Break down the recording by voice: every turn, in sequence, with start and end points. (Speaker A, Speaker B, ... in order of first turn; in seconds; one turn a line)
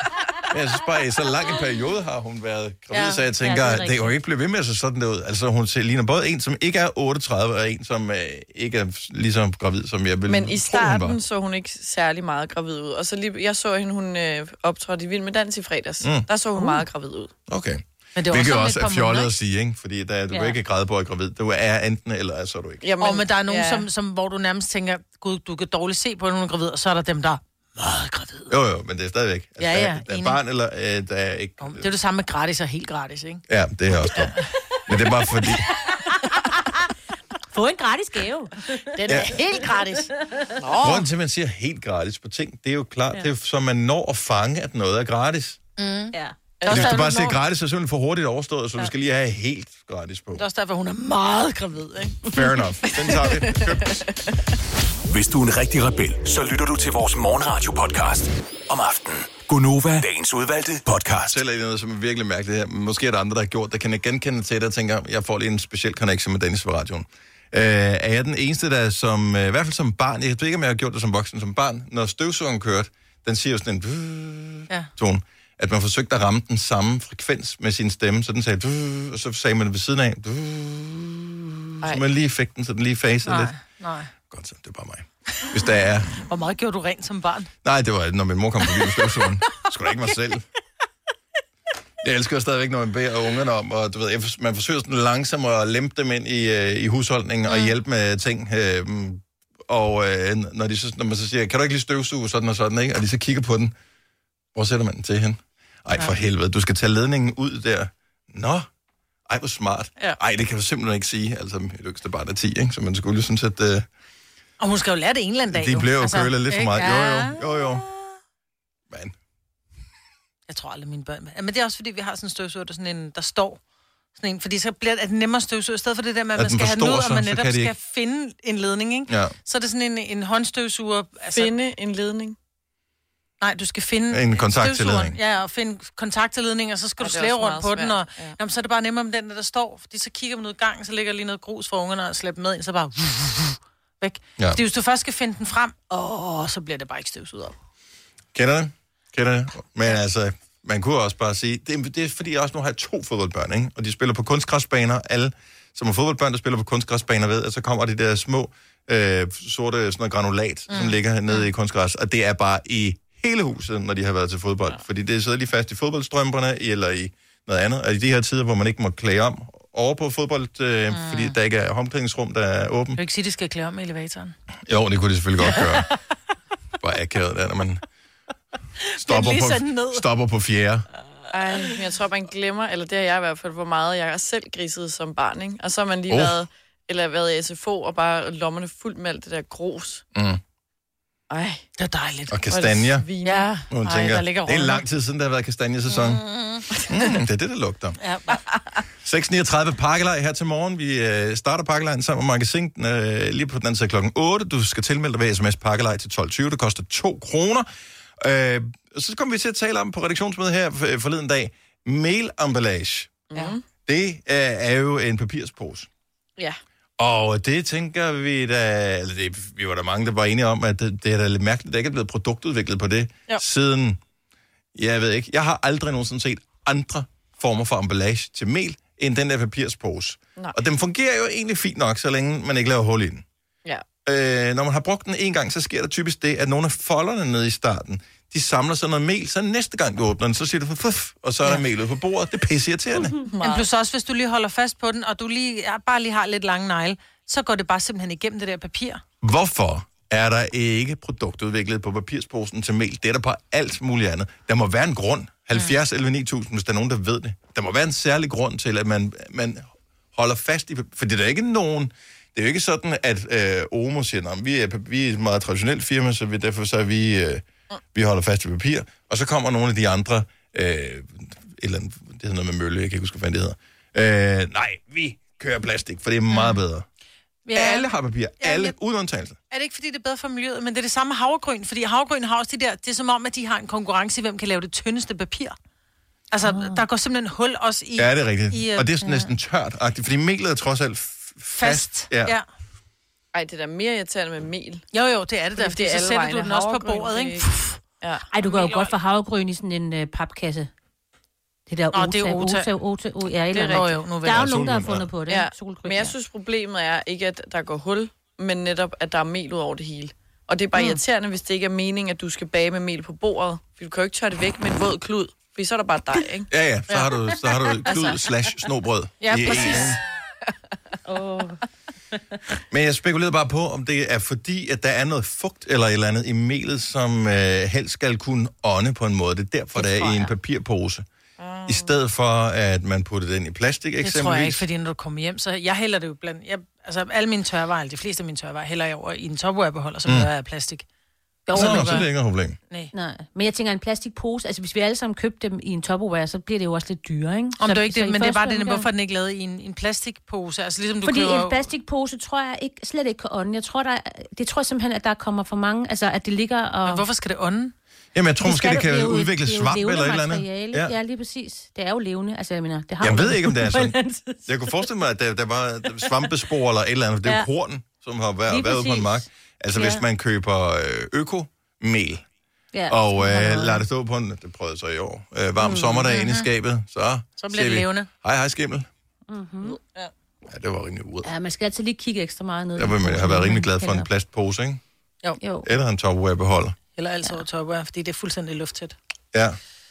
Speaker A: 0.5-11.2
Speaker B: 2.9-3.2
Speaker C: 3.4-4.2
Speaker D: 10.3-17.3
Speaker A: 16.0-16.3
Speaker A: 17.5-22.8
Speaker B: 18.1-19.3
Speaker C: 20.3-20.6
Speaker D: 22.8-23.9
Speaker B: 23.0-28.5
Speaker A: 28.5-31.9
Speaker B: 29.6-30.4
Speaker B: 31.6-33.4
Speaker A: 33.5-34.3
Speaker A: 34.9-35.7
Speaker C: 36.1-36.4
Speaker C: 37.5-40.5
Speaker B: 38.9-40.1
Speaker A: 39.1-39.3
Speaker D: 40.6-41.0
Speaker A: 40.8-45.6
Speaker B: 45.8-47.4
Speaker D: 46.6-46.9
Speaker A: 46.7-50.4
Speaker B: 50.4-52.4
Speaker A: 52.3-54.0
Speaker D: 53.0-54.3
Speaker E: 55.1-61.4
Speaker A: 61.3-83.5
Speaker B: 83.2-84.1
Speaker A: 84.3-86.1
Speaker B: 86.2-87.5
Speaker A: 87.6-90.5
Speaker A: 92.0-103.7
Speaker A: 104.5-108.7
Speaker A: 109.3-113.9
Speaker B: 114.6-117.9
Speaker A: 115.5-117.8
Speaker B: 120.5-123.6
Speaker B: 124.2-131.5
Speaker A: 126.4-127.7
Speaker A: 129.1-129.3
Speaker D: 131.3-132.4
Speaker B: 133.4-147.5
Speaker A: 134.1-135.2
Speaker D: 137.0-138.4
Speaker A: 148.3-173.0
Speaker B: 160.7-161.4
Speaker B: 170.9-171.3
Speaker B: 173.0-174.3
Speaker A: 174.7-175.9
Speaker A: 176.8-177.8
Speaker B: 178.9-180.0
Speaker A: 179.0-180.9
Speaker D: 181.3-190.0
Speaker A: 186.1-186.4
Speaker A: 190.1-190.4
Speaker D: 191.3-191.6
Speaker B: 191.8-192.4
Speaker A: 192.3-193.1
Speaker D: 192.5-193.5
Speaker B: 193.2-194.8
Speaker A: 193.7-196.2
Speaker B: 195.9-196.8
Speaker A: 196.9-198.0
Speaker B: 198.0-198.4
Speaker A: 199.0-207.7
Speaker A: 208.2-213.3
Speaker D: 213.3-213.6
Speaker A: 213.9-215.9
Speaker A: 217.0-224.0
Speaker A: 224.8-233.2
Speaker A: 234.0-243.1
Speaker D: 243.3-243.7
Speaker B: 243.4-249.0
Speaker A: 249.2-276.9
Speaker B: 276.3-276.6
Speaker B: 277.5-277.9
Speaker A: 277.5-279.4
Speaker B: 278.4-278.7
Speaker B: 279.5-285.6
Speaker B: 286.3-289.3
Speaker C: 286.4-286.9
Speaker A: 288.0-292.4
Speaker B: 291.6-292.4
Speaker D: 293.3-294.9
Speaker B: 294.9-297.8
Speaker D: 295.6-298.2
Speaker C: 298.3-300.7
Speaker B: 298.4-298.9
Speaker C: 301.7-306.1
Speaker B: 301.9-302.7
Speaker D: 303.5-303.9
Speaker B: 303.7-304.5
Speaker A: 304.3-305.1
Speaker D: 305.3-316.5
Speaker A: 316.5-320.0
Speaker C: 317.5-318.1
Speaker B: 319.2-320.0
Speaker C: 321.1-321.6
Speaker A: 322.7-331.0
Speaker C: 329.8-330.3
Speaker D: 331.4-331.9
Speaker A: 331.6-334.6
Speaker B: 334.0-340.9
Speaker C: 341.5-342.1
Speaker B: 341.5-342.0
Speaker A: 341.5-342.6
Speaker C: 342.9-348.9
Speaker B: 347.6-351.7
Speaker C: 351.0-357.1
Speaker B: 356.9-357.7
Speaker A: 358.1-360.9
Speaker C: 358.4-364.9
Speaker A: 363.0-372.2
Speaker C: 367.2-367.5
Speaker C: 368.5-370.0
Speaker C: 372.7-373.8
Speaker A: 372.9-378.9
Speaker C: 375.6-376.1
Speaker B: 376.1-376.5
Speaker B: 377.4-378.1
Speaker C: 379.3-379.8
Speaker A: 380.5-381.3
Speaker C: 381.2-384.1
Speaker A: 382.8-384.8
Speaker C: 385.4-385.7
Speaker A: 385.6-386.8
Speaker B: 387.0-388.9